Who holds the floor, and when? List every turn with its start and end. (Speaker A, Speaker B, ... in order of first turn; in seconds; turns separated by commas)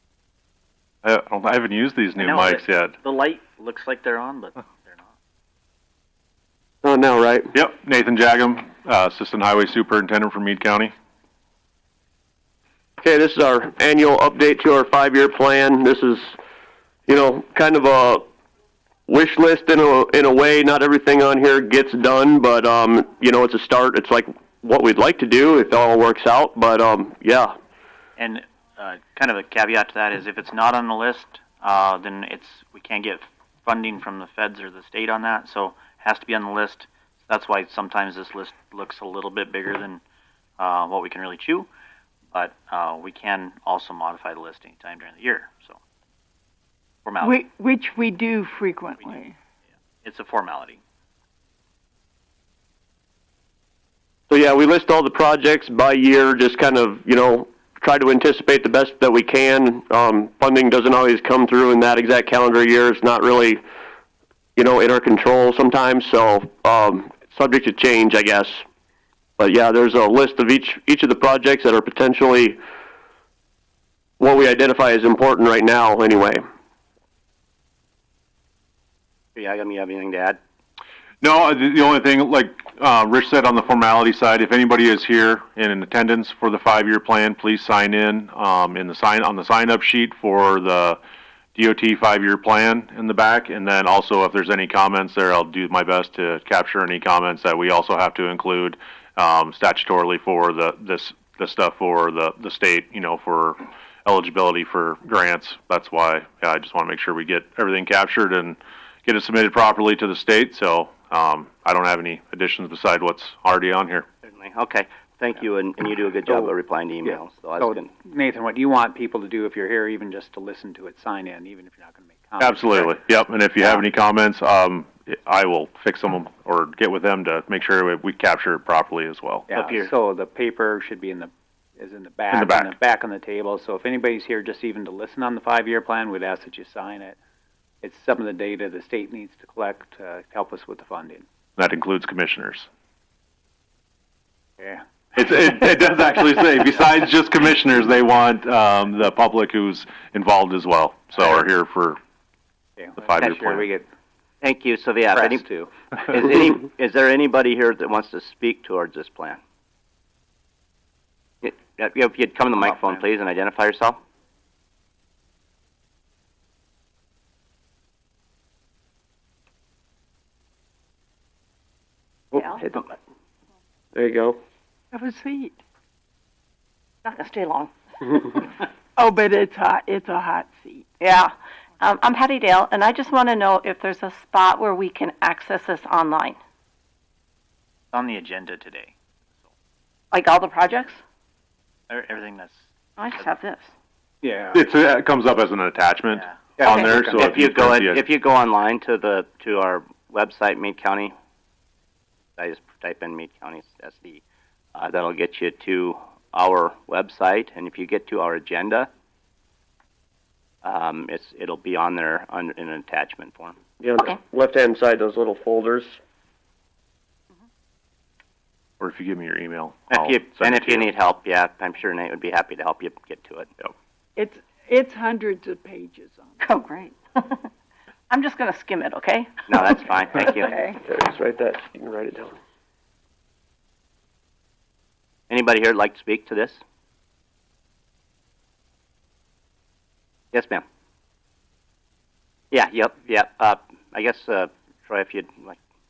Speaker A: 1.0-3.0, Speaker B: 2.1-5.0, Speaker C: 6.8-7.5, Speaker A: 7.5-10.9, Speaker C: 13.0-16.3, Speaker C: 17.1-18.2, Speaker C: 19.1-27.5, Speaker B: 28.2-40.0, Speaker B: 40.6-41.7, Speaker B: 42.3-45.8, Speaker B: 47.0-47.4, Speaker D: 47.2-49.4, Speaker B: 50.0-50.8, Speaker C: 54.3-63.6, Speaker C: 64.5-68.6, Speaker C: 69.4-72.6, Speaker C: 74.2-76.4, Speaker E: 79.3-80.4, Speaker A: 81.2-91.0, Speaker A: 91.5-114.0, Speaker E: 114.2-117.9, Speaker F: 117.6-123.0, Speaker A: 122.4-129.7, Speaker F: 129.5-137.2, Speaker E: 129.6-129.9, Speaker A: 132.3-132.7, Speaker F: 137.8-141.3, Speaker A: 141.6-142.7, Speaker A: 145.2-152.0, Speaker F: 152.8-153.9, Speaker A: 153.0-153.7, Speaker E: 154.4-155.5, Speaker F: 155.1-156.1, Speaker E: 156.1-159.4, Speaker E: 161.4-164.0, Speaker C: 172.3-172.9, Speaker C: 173.9-174.4, Speaker D: 174.9-175.6, Speaker G: 177.1-178.5, Speaker D: 179.0-180.9, Speaker G: 181.0-186.4, Speaker B: 187.9-188.9, Speaker G: 190.1-191.0, Speaker B: 191.9-192.6, Speaker G: 193.0-193.7, Speaker F: 194.2-194.6, Speaker A: 194.5-198.1, Speaker B: 196.2-196.5, Speaker F: 196.6-197.2, Speaker G: 196.6-197.1, Speaker E: 197.1-201.2, Speaker E: 202.4-204.2, Speaker E: 204.8-208.9, Speaker E: 210.6-213.6, Speaker C: 213.8-216.0, Speaker A: 218.8-220.9, Speaker E: 219.9-223.5, Speaker D: 224.2-226.4, Speaker G: 226.4-227.5, Speaker G: 228.1-230.8, Speaker E: 229.5-230.5, Speaker C: 230.8-232.3, Speaker E: 235.3-236.6, Speaker E: 240.3-240.6, Speaker E: 242.5-245.6